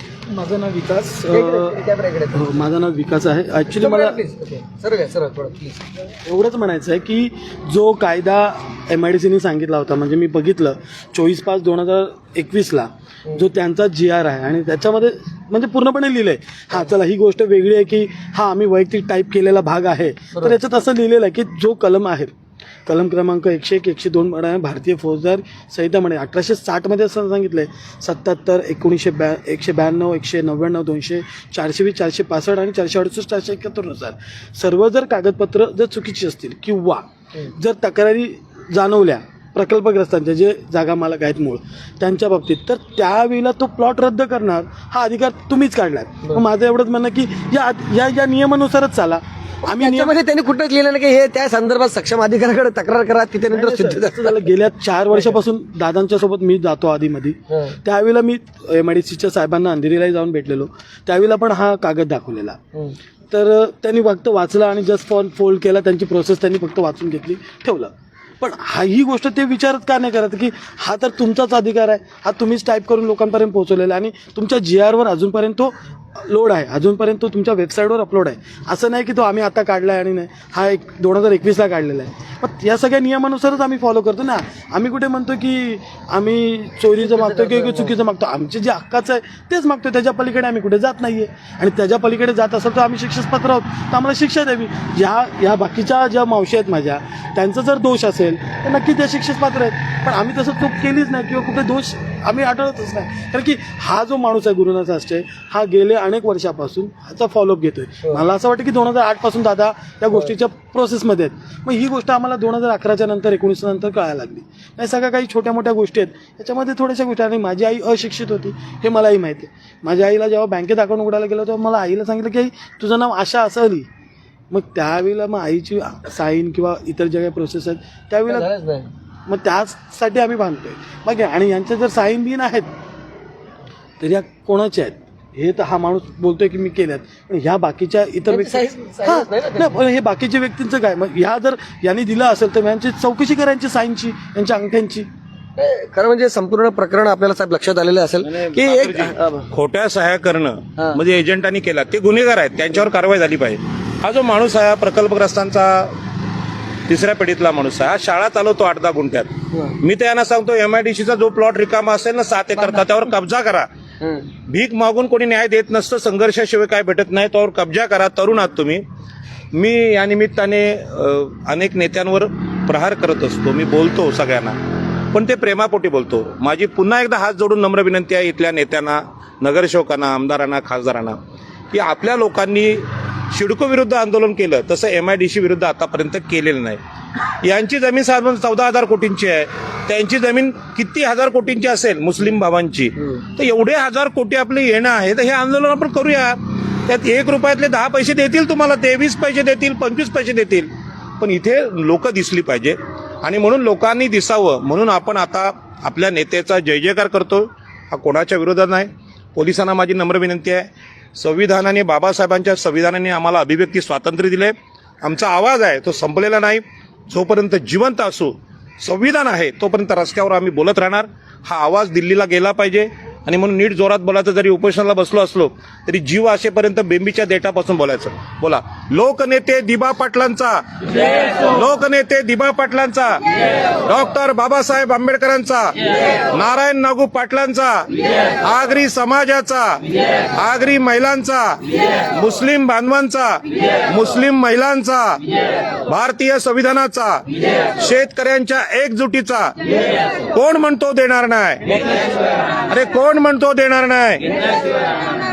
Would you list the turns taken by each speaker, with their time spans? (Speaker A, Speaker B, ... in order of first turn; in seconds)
Speaker A: 0.3-1.8, 2.3-4.2, 6.3-22.3, 22.9-50.1, 53.5-62.6, 63.3-123.9, 124.5-128.5, 129.3-132.7, 134.0-145.1
Speaker B: 1.3-2.6, 3.7-5.9, 20.3-20.6, 49.6-54.5, 57.5-57.8, 87.0-88.0, 128.3-128.9, 138.3-139.8, 145.6-149.5, 159.5-159.8, 162.6-162.8, 164.0-164.3
Speaker C: 148.2-156.0, 156.9-163.7, 164.5-168.8, 169.5-174.6, 175.1-181.2, 181.7-186.8, 187.4-233.3, 233.8-245.3, 245.9-249.7, 250.3-251.9, 252.7-254.3